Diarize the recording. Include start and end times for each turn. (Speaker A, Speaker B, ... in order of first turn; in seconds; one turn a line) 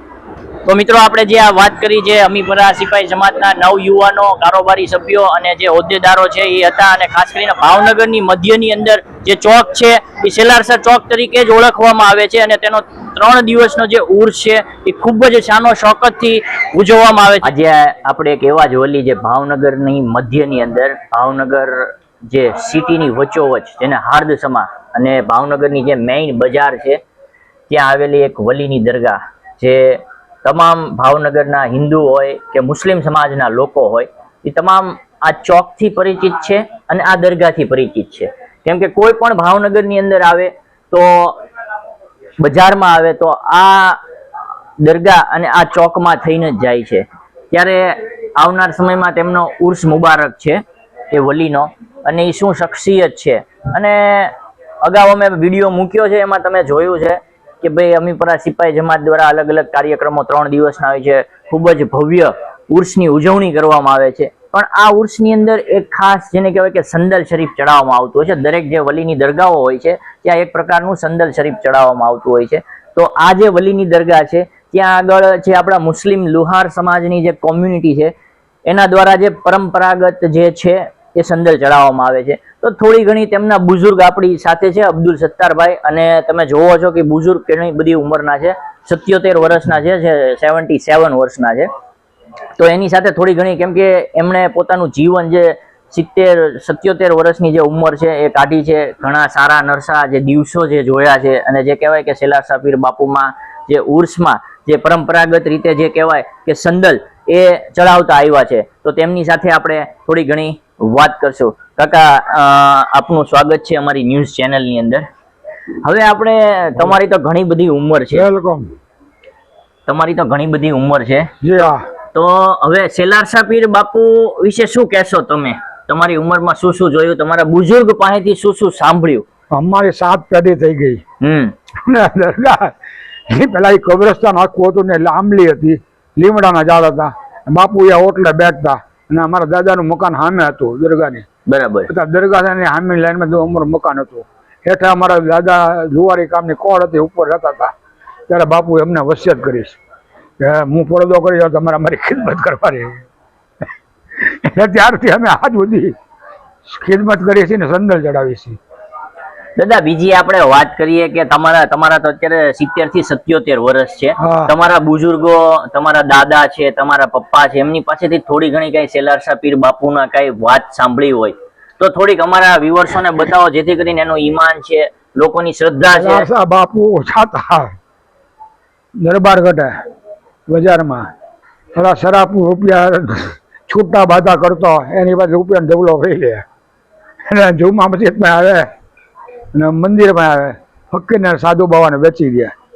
Speaker A: 0.6-21.8
Speaker A: 22.3-27.0
Speaker A: 27.7-41.4
Speaker A: 42.4-44.0
Speaker A: 44.8-50.6
Speaker A: 51.1-78.1
Speaker A: 78.7-91.7
Speaker A: 92.6-115.0
Speaker A: 115.8-118.2
Speaker B: 118.1-118.7
Speaker A: 119.8-129.2
Speaker B: 121.4-121.8
Speaker B: 129.5-131.0
Speaker A: 131.2-131.5
Speaker B: 131.8-132.7
Speaker B: 133.3-141.2
Speaker A: 141.5-141.9
Speaker B: 141.9-147.7
Speaker B: 148.3-149.8
Speaker B: 150.4-153.0
Speaker B: 154.2-155.9
Speaker B: 156.7-158.6
Speaker A: 159.6-176.3
Speaker B: 164.2-164.5
Speaker B: 175.9-177.7
Speaker B: 179.0-179.7
Speaker B: 180.5-181.1
Speaker B: 181.8-186.4
Speaker B: 187.3-188.7
Speaker B: 189.5-192.5